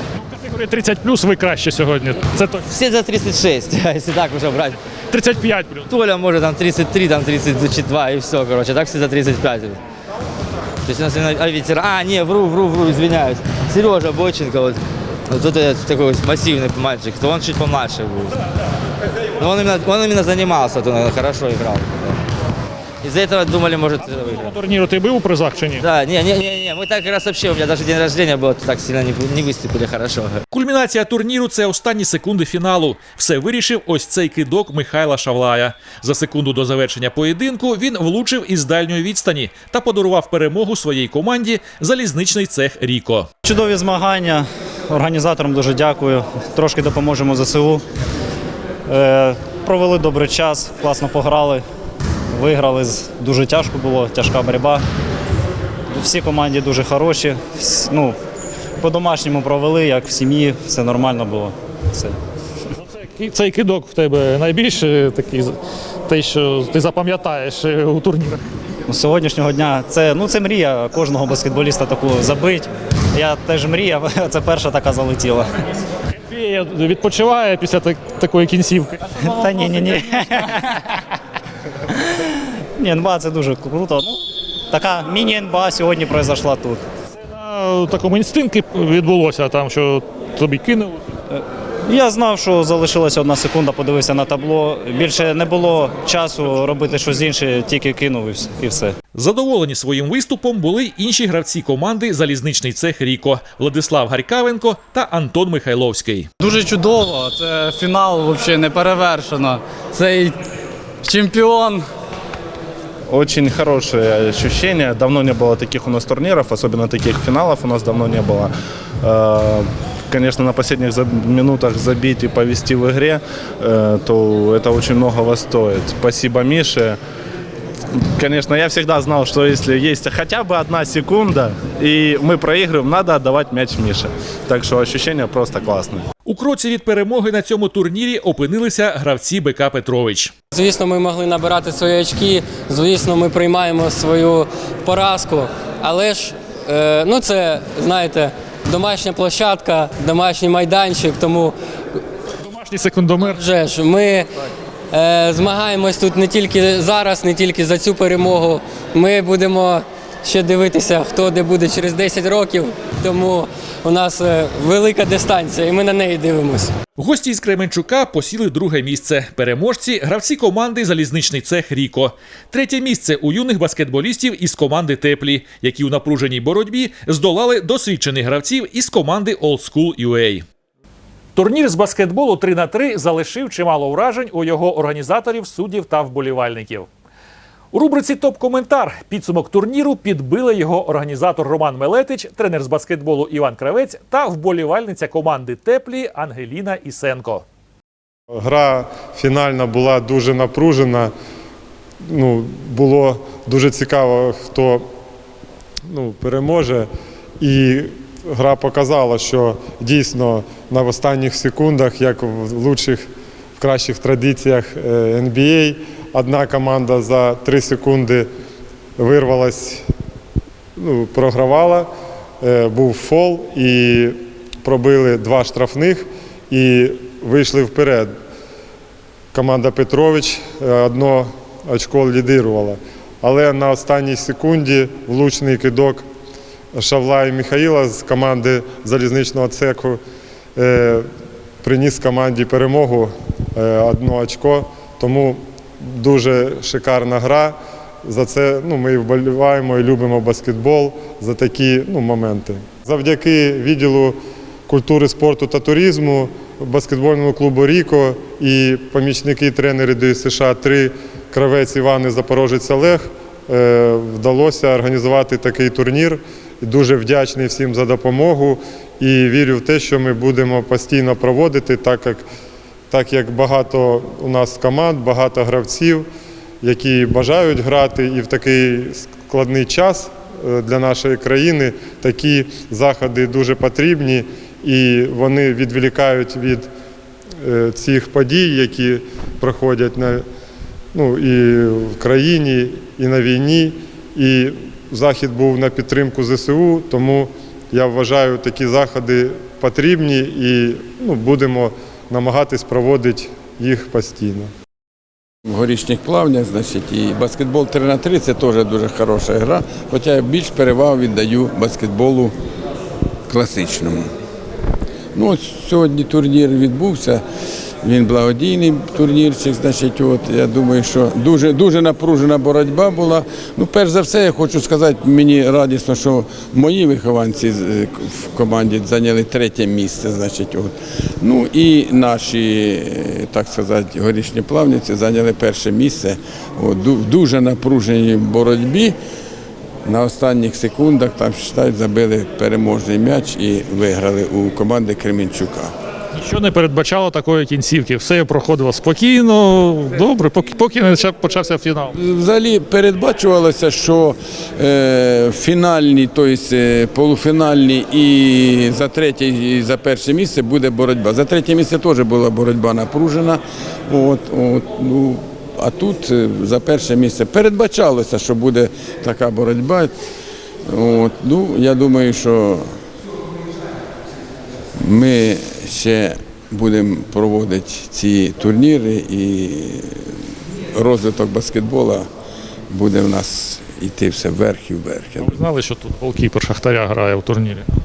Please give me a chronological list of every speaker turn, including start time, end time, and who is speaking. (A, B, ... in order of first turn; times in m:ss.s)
0:00.2-0:02.7 A
0:02.7-0:04.8 B
0:05.1-0:05.9 A
0:05.9-0:09.8 B
0:10.8-0:14.8 B
0:15.3-0:18.4 B
0:19.4-0:22.0 B
0:23.0-0:24.5 B
0:24.0-0:25.8 A
0:25.8-0:30.4 B
0:30.5-0:43.3 C
0:43.4-0:47.8 D
0:48.9-0:51.6 D
0:52.3-0:54.8 D
0:55.9-0:58.2 D
0:58.8-1:02.2 D
1:02.7-1:08.4 A
1:08.9-1:15.5 D
1:16.2-1:19.1 A
1:19.3-1:20.8 D
1:22.8-1:26.8 D
1:27.2-1:31.0 A
1:31.3-1:39.0 D
1:39.1-1:46.3 C
1:46.4-1:50.4 E
1:51.0-1:51.8 E
1:53.1-2:07.0 F
2:08.1-2:16.1 F
2:16.2-2:20.3 C
2:20.5-2:31.6 G
2:32.4-2:33.4 A
2:33.2-2:34.3 G
2:34.9-2:46.7 G
2:47.0-3:00.4 C
3:01.4-3:06.9 C
3:07.7-3:17.4 C
3:18.4-3:21.1 H
3:22.1-3:24.9 H
3:25.9-3:26.9 H
3:27.4-3:38.3 H
3:39.0-3:39.8 H
3:40.8-3:41.9 H
3:42.4-3:48.1 H
3:49.3-3:56.0 H
3:56.8-4:00.0 H
4:00.6-4:01.1 H
4:01.6-4:32.3 H
4:32.9-4:36.1 H
4:36.6-4:46.7 H
4:47.4-4:50.2 H
4:50.9-5:04.5 H
5:05.5-5:12.3 I
5:13.3-5:14.1 I
5:15.2-5:17.2 I
5:17.8-5:39.0 I
5:39.8-5:45.7 I
5:46.1-5:51.9 A
5:51.9-6:09.9 I
6:10.7-6:12.7 I
6:14.8-6:20.2 I
6:20.8-6:22.1 I
6:22.7-6:25.4 I
6:25.2-6:27.7 A